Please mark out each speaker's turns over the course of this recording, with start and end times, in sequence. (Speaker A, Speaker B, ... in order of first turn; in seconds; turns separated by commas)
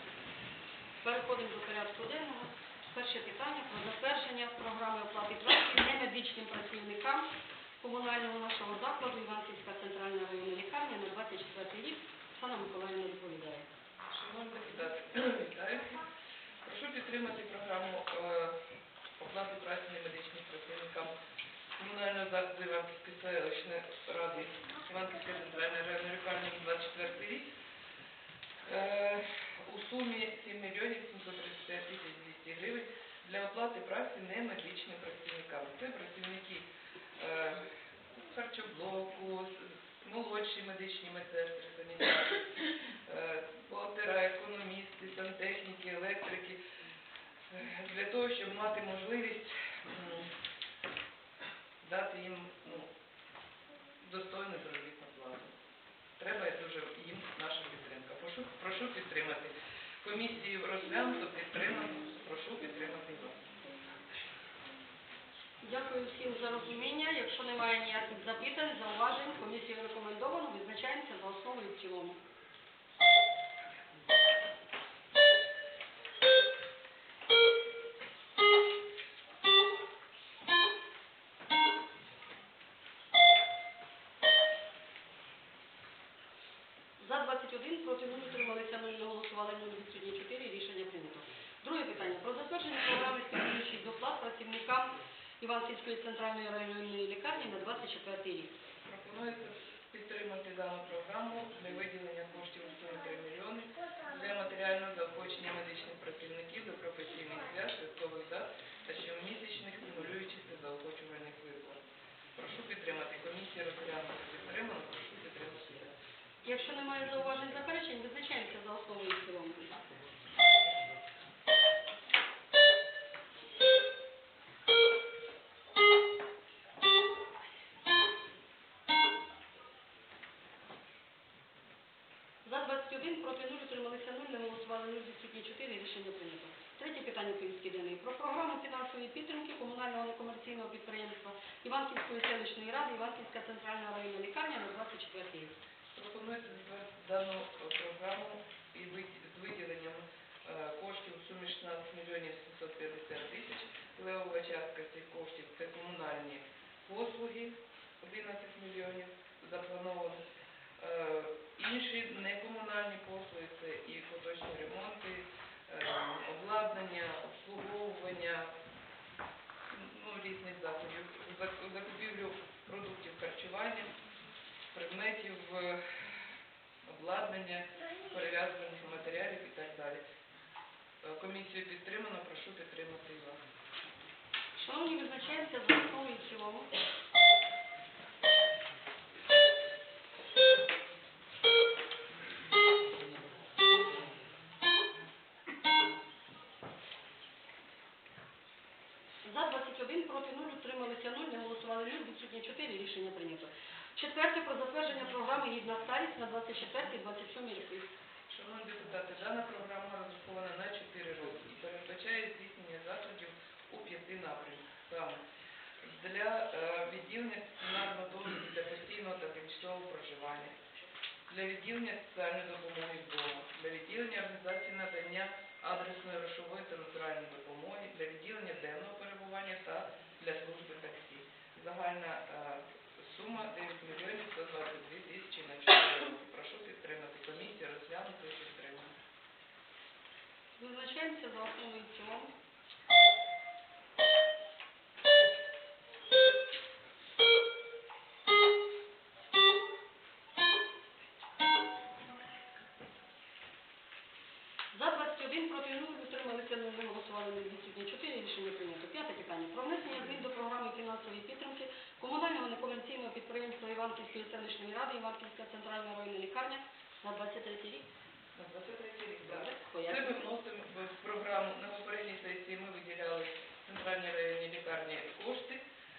Speaker A: 1.0-7.2, Speaker A: 7.8-13.7, Speaker B: 14.1-16.1, Speaker B: 16.6-18.6, Speaker B: 19.2-21.1, Speaker B: 21.8-27.5, Speaker B: 28.6-36.7, Speaker B: 37.2-46.6, Speaker B: 47.5-50.3, Speaker B: 51.8-52.9, Speaker B: 54.0-55.5, Speaker B: 56.2-63.4, Speaker A: 65.6-72.2, Speaker A: 87.0-98.5, Speaker B: 98.8-111.8, Speaker B: 112.3-115.9, Speaker A: 116.4-119.8, Speaker A: 132.4-145.5, Speaker B: 145.9-160.2, Speaker B: 160.8-168.5, Speaker B: 169.7-173.9, Speaker B: 174.7-175.8, Speaker B: 176.9-180.0, Speaker B: 181.0-183.4, Speaker A: 184.6-186.7, Speaker A: 199.2-207.9, Speaker B: 208.3-215.2, Speaker B: 215.9-220.6, Speaker B: 221.3-238.9, Speaker A: 240.6-242.3, Speaker A: 254.7-267.9, Speaker B: 268.4-275.6, Speaker A: 269.3-270.2